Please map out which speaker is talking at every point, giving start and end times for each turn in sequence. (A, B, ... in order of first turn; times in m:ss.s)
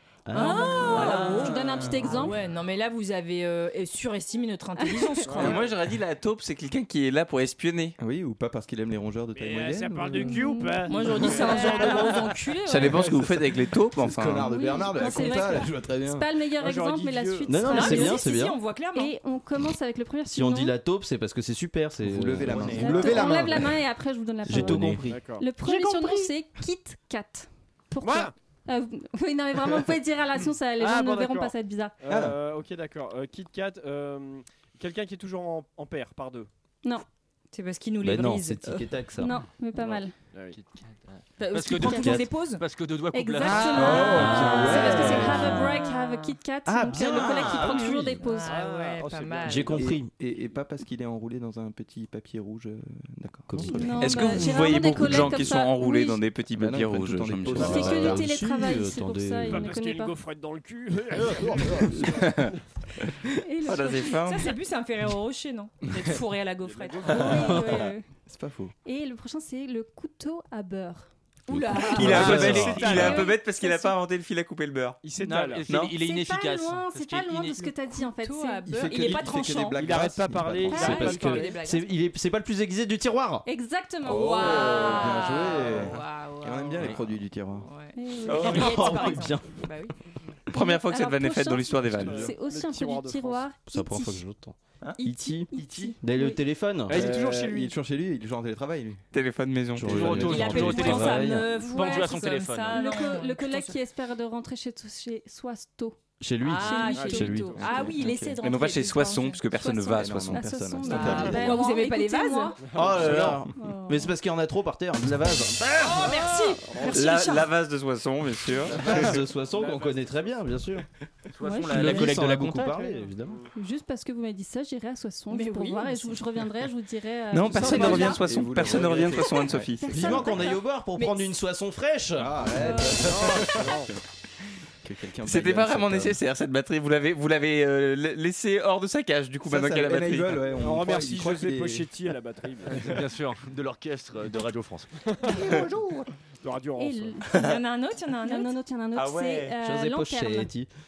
0:00.2-0:01.4 A
0:00.3-0:02.4 B
0:00.3-0:05.6 C
0:04.8-0:05.2 B
0:05.3-0:05.7 D
0:05.4-0:08.0 E
0:08.0-0:11.7 F
0:09.4-0:12.2 D
0:10.2-0:10.9 B
0:10.9-0:13.2 C
0:11.5-0:12.0 B
0:12.6-0:14.5 E
0:12.8-0:16.3 F
0:14.4-0:18.3 B
0:16.6-0:17.8 D
0:17.5-0:18.6 A
0:17.7-0:19.1 C
0:19.0-0:20.7 B
0:20.3-0:23.4 A
0:22.0-0:23.8 F
0:22.7-0:32.0 B
0:24.4-0:25.2 A
0:25.1-0:25.5 D
0:25.6-0:26.3 C
0:28.0-0:28.3 D
0:30.8-0:36.5 D
0:32.1-0:32.4 F
0:37.5-0:38.9 C
0:38.0-0:39.4 A
0:39.2-0:40.1 B
0:39.8-0:40.6 D
0:41.4-0:42.6 C
0:41.5-0:44.0 G
0:41.8-0:42.2 B
0:41.8-0:42.3 A
0:43.1-0:48.6 B
0:43.4-0:46.4 C
0:43.6-0:45.6 A
0:43.7-0:45.5 F
0:46.6-0:48.2 A
0:47.0-0:47.4 F
0:48.2-0:49.9 C
0:48.4-0:49.9 D
0:49.4-0:50.1 A
0:49.8-0:54.0 F
0:53.5-0:54.1 A
0:53.7-0:56.2 B
0:54.0-0:58.1 E
0:56.6-0:58.3 F
0:57.5-0:59.7 A
0:57.6-1:00.2 B
0:59.4-1:02.5 D
1:03.4-1:04.3 B
1:03.6-1:04.5 E
1:04.1-1:07.4 C
1:06.6-1:07.6 D
1:07.1-1:08.0 B
1:07.3-1:08.7 F
1:08.8-1:11.1 B
1:11.5-1:13.2 C
1:11.9-1:15.0 E
1:12.0-1:13.2 D
1:12.5-1:13.9 B
1:15.0-1:15.7 D
1:15.2-1:17.7 G
1:15.6-1:16.0 E
1:15.8-1:19.0 B
1:18.0-1:20.1 C
1:18.6-1:21.0 F
1:19.7-1:21.5 D
1:20.7-1:21.4 B
1:20.7-1:23.4 A
1:20.8-1:21.9 C
1:23.4-1:25.0 B
1:24.0-1:27.7 F
1:24.0-1:27.0 C
1:27.6-1:29.9 C
1:28.0-1:29.1 B
1:28.3-1:28.7 E
1:28.4-1:29.6 A
1:30.5-1:32.3 E
1:30.5-1:34.2 B
1:31.9-1:33.5 D
1:33.6-1:37.2 A
1:35.0-1:36.4 B
1:35.5-1:36.0 F
1:36.9-1:37.8 D
1:36.9-1:39.0 F
1:39.1-1:40.6 E
1:39.7-1:41.5 A
1:39.9-1:40.5 F
1:39.9-1:42.9 G
1:40.1-1:43.8 C
1:41.5-1:42.1 B
1:42.7-1:47.6 B
1:46.2-1:47.6 A
1:46.4-1:49.4 C
1:46.8-1:47.2 D
1:47.6-1:48.4 F
1:48.4-1:50.7 E
1:49.5-1:52.6 B
1:49.9-1:51.6 F
1:50.9-1:52.6 C
1:52.7-1:52.9 D
1:52.7-1:55.7 A
1:53.5-1:54.1 B
1:55.8-1:57.5 C
1:55.8-1:57.1 D
1:56.9-1:59.2 E
1:58.8-2:00.8 A
1:59.5-2:00.2 D
2:01.3-2:02.8 G
2:01.4-2:02.1 B
2:01.6-2:03.4 A
2:02.8-2:03.3 D
2:03.5-2:08.2 B
2:05.3-2:06.2 C
2:07.3-2:10.2 E
2:07.7-2:09.8 F
2:09.7-2:10.6 B
2:09.9-2:12.4 A
2:11.0-2:11.3 C
2:12.2-2:13.8 F
2:12.6-2:13.4 C
2:13.0-2:13.9 D
2:14.8-2:16.2 F
2:15.2-2:20.4 E
2:19.4-2:21.9 F
2:20.4-2:22.9 D
2:22.7-2:24.9 G
2:25.1-2:25.6 D
2:25.5-2:25.7 G
2:26.4-2:27.2 D
2:26.8-2:27.5 B
2:27.3-2:28.6 C
2:28.2-2:30.5 B
2:28.9-2:29.6 E
2:29.6-2:30.7 A